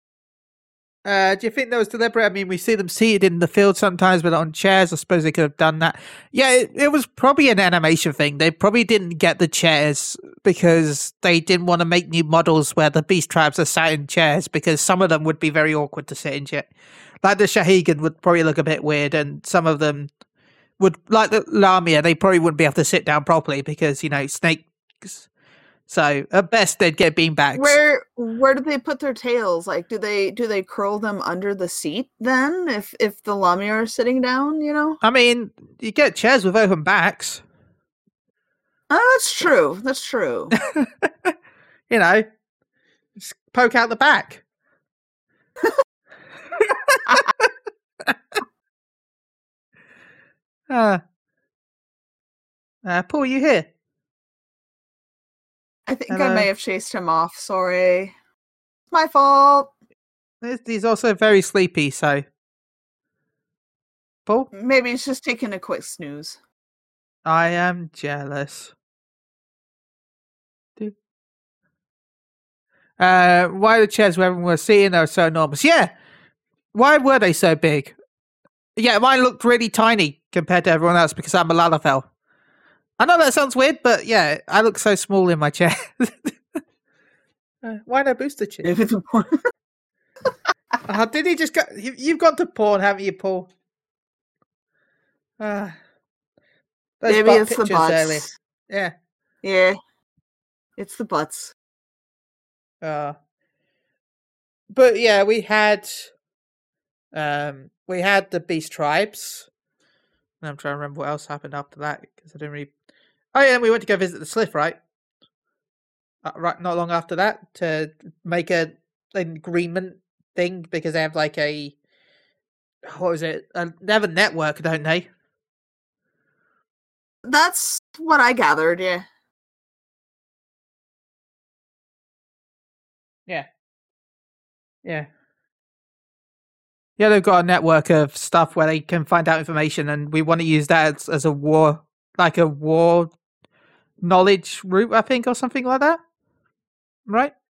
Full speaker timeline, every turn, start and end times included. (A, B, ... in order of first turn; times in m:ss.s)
0:01.0-0:16.7 A
0:17.2-0:20.1 A
0:20.8-0:25.3 A
0:25.9-0:27.8 A
0:27.6-0:35.0 B
0:35.0-0:37.4 A
0:38.9-0:40.6 B
0:40.6-0:41.3 A
0:41.9-0:42.3 A
0:43.2-0:44.4 A
0:46.7-0:47.2 A
0:50.7-0:51.0 A
0:52.8-0:53.7 A
0:55.9-0:58.1 B
0:56.1-0:56.5 A
0:58.9-0:59.7 B
1:00.4-1:02.2 A
1:04.5-1:06.4 B
1:07.2-1:08.7 A
1:13.0-1:15.9 A
1:16.7-1:17.9 A
1:18.8-1:22.1 A
1:23.0-1:26.6 A
1:27.6-1:28.7 A
1:28.6-1:29.4 B
1:30.9-1:33.5 A
1:35.4-1:35.8 A
1:37.0-1:38.9 A
1:37.1-1:38.3 B
1:39.4-1:39.8 B
1:40.8-1:41.5 B
1:42.8-1:43.2 A
1:44.7-1:46.1 A
1:47.1-1:49.5 A
1:50.4-1:52.7 A
1:53.3-1:54.8 A
1:56.2-2:01.8 A
2:02.9-2:05.1 A
2:07.2-2:09.1 B
2:17.0-2:23.1 A
2:24.0-2:26.0 A
2:27.1-2:27.3 A